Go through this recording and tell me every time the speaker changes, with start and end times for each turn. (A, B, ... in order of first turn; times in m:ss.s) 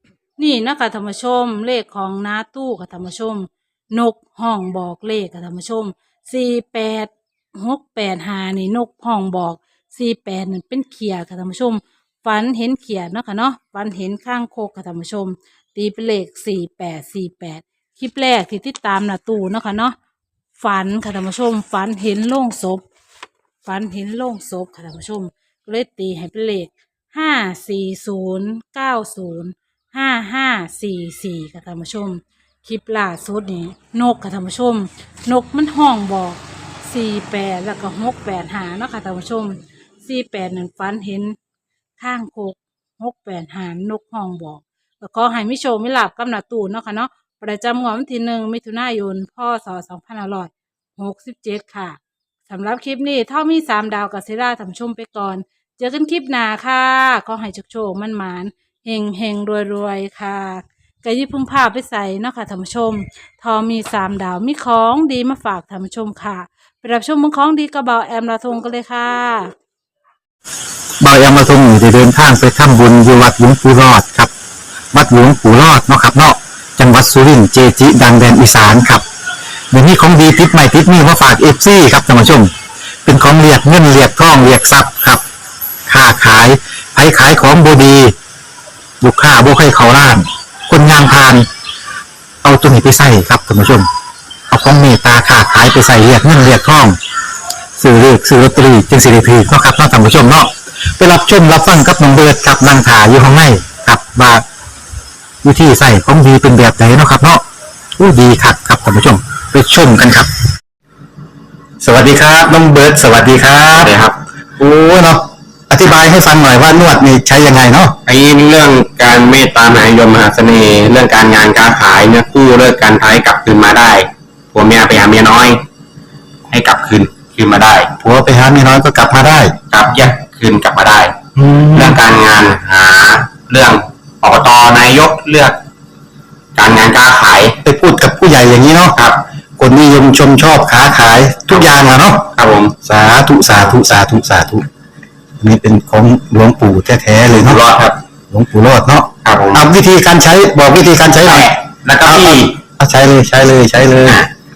0:00.4-0:20.0 A
0:20.6-0:22.8 A
0:23.6-0:41.4 A
0:42.0-1:09.5 A
1:11.0-1:14.3 B
1:14.9-1:19.0 B
1:19.7-1:22.5 B
1:23.0-1:25.2 B
1:25.9-1:28.1 B
1:29.0-1:31.5 B
1:32.4-1:33.9 B
1:34.5-1:37.0 B
1:37.8-1:44.4 B
1:45.4-1:47.4 B
1:48.0-1:50.3 B
1:51.8-1:53.9 B
1:53.8-1:54.2 C
1:54.6-1:58.0 B
1:58.0-2:05.6 C
2:06.5-2:07.9 C
2:08.0-2:09.6 B
2:09.7-2:11.2 C
2:11.4-2:12.0 B
2:11.7-2:15.6 C
2:16.6-2:17.6 C
2:17.6-2:19.0 B
2:18.9-2:19.2 C
2:19.6-2:22.2 B
2:22.3-2:22.7 C
2:22.8-2:24.6 B
2:25.4-2:27.6 B
2:27.3-2:28.0 C
2:28.3-2:31.5 B
2:29.2-2:29.6 C
2:31.2-2:32.6 C
2:32.0-2:34.2 B
2:34.0-2:34.3 C